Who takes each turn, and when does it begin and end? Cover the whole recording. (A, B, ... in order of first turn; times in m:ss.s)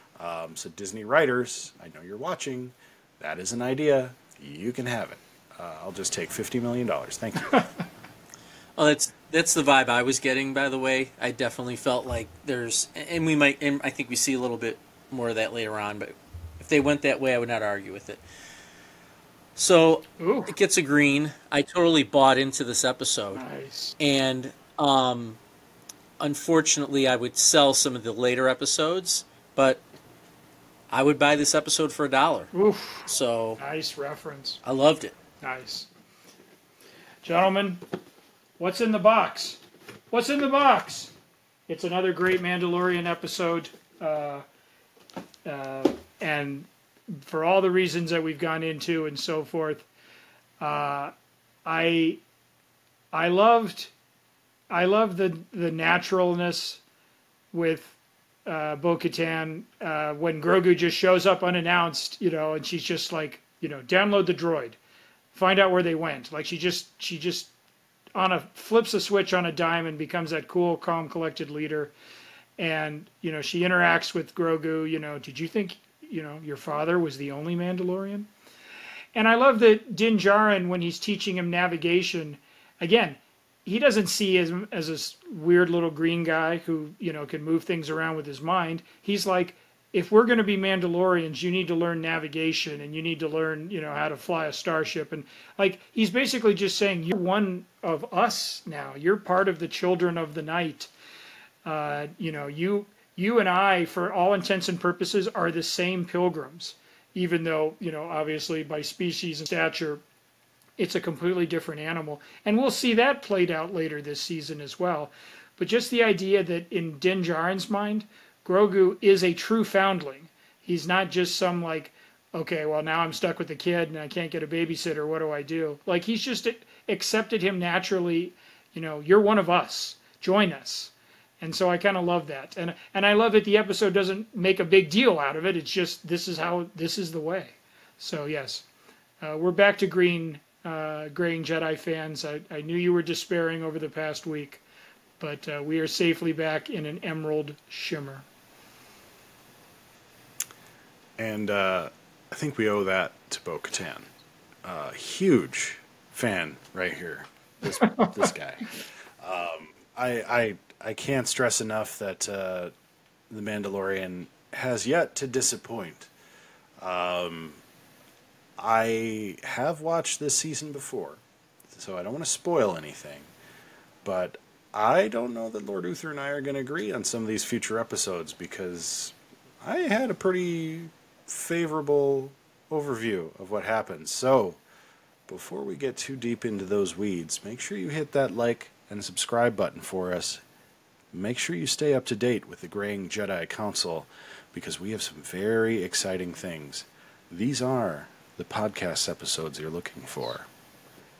0:00.2-0:07.7 A
0:08.8-0:18.2 B
0:19.6-0:23.4 B
0:20.2-0:20.5 C
0:23.4-0:24.0 C
0:24.0-0:25.4 B
0:26.2-0:29.8 B
0:30.9-0:32.5 B
0:32.5-0:34.6 C
0:33.1-0:33.6 B
0:34.6-0:35.2 B
0:35.4-0:35.9 C
0:37.2-0:37.8 C
0:38.6-0:41.1 C
0:41.7-0:44.4 C
0:45.4-0:49.8 C
0:50.6-0:51.1 C
0:51.6-0:52.2 C
0:53.1-0:53.9 C
0:54.7-0:56.8 C
0:57.5-0:57.9 C
0:58.4-1:04.8 C
1:05.3-1:07.5 C
1:08.1-1:11.9 C
1:12.6-1:18.3 C
1:19.1-1:40.9 C
1:41.6-1:50.0 C
1:50.8-2:18.6 C
2:19.2-2:24.6 C
2:25.2-2:28.2 C
2:31.2-2:34.1 A
2:34.6-2:42.7 A
2:43.3-2:46.1 A
2:46.8-2:47.6 A
2:48.6-2:53.3 A
2:54.0-3:04.6 A
3:05.3-3:10.4 A
3:11.1-3:20.5 A